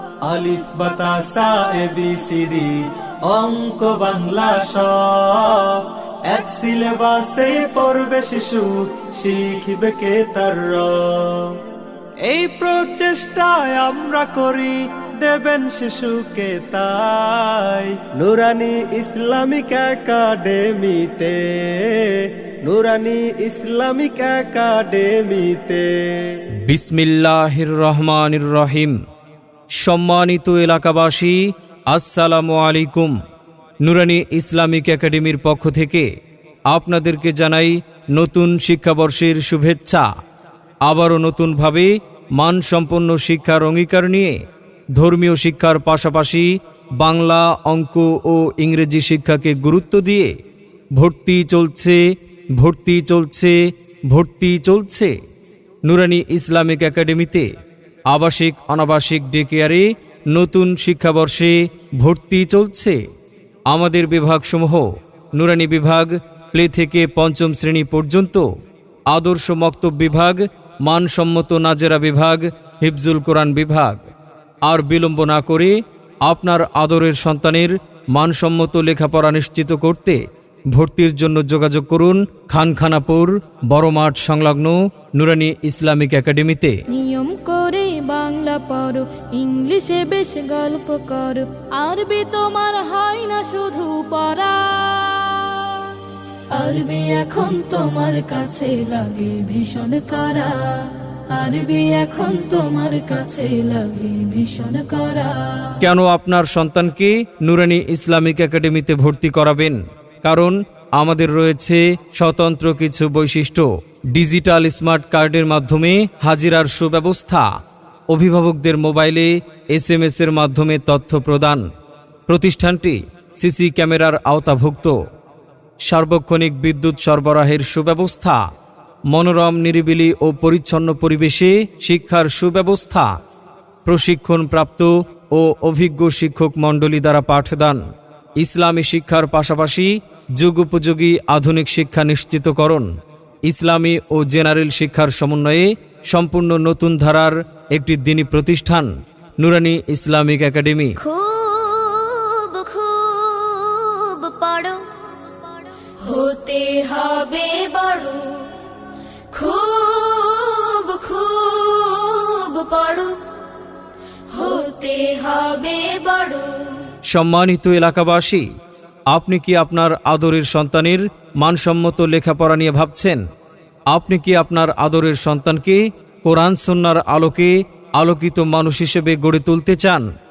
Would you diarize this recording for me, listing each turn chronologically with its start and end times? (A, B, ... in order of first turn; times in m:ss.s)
0:00.2-0:11.6 A
0:12.2-0:26.4 A
0:26.6-0:29.0 B
0:29.8-0:31.4 B
0:31.9-0:33.1 B
0:33.8-0:36.1 B
0:36.7-0:40.0 B
0:40.8-0:44.3 B
0:45.0-0:50.3 B
0:51.0-0:52.0 B
0:52.6-0:53.6 B
0:54.1-0:55.1 B
0:55.8-0:57.5 B
0:58.1-1:03.0 B
1:03.7-1:08.4 B
1:09.1-1:14.0 B
1:14.6-1:15.7 B
1:16.2-1:20.2 B
1:20.7-1:26.8 B
1:26.9-1:35.6 C
1:36.5-1:45.8 C
1:45.8-1:57.4 B
1:58.1-2:01.6 B
2:02.3-2:05.0 B
2:05.8-2:08.4 B
2:09.1-2:13.1 B
2:13.8-2:17.8 B
2:18.4-2:22.9 B
2:23.4-2:31.0 B
2:31.0-2:35.5 D
2:36.0-2:37.0 C
2:36.4-2:38.2 D
2:39.3-2:43.1 D
2:44.3-2:46.7 D
2:47.1-2:48.4 B
2:49.1-2:53.2 B
2:53.9-3:00.1 B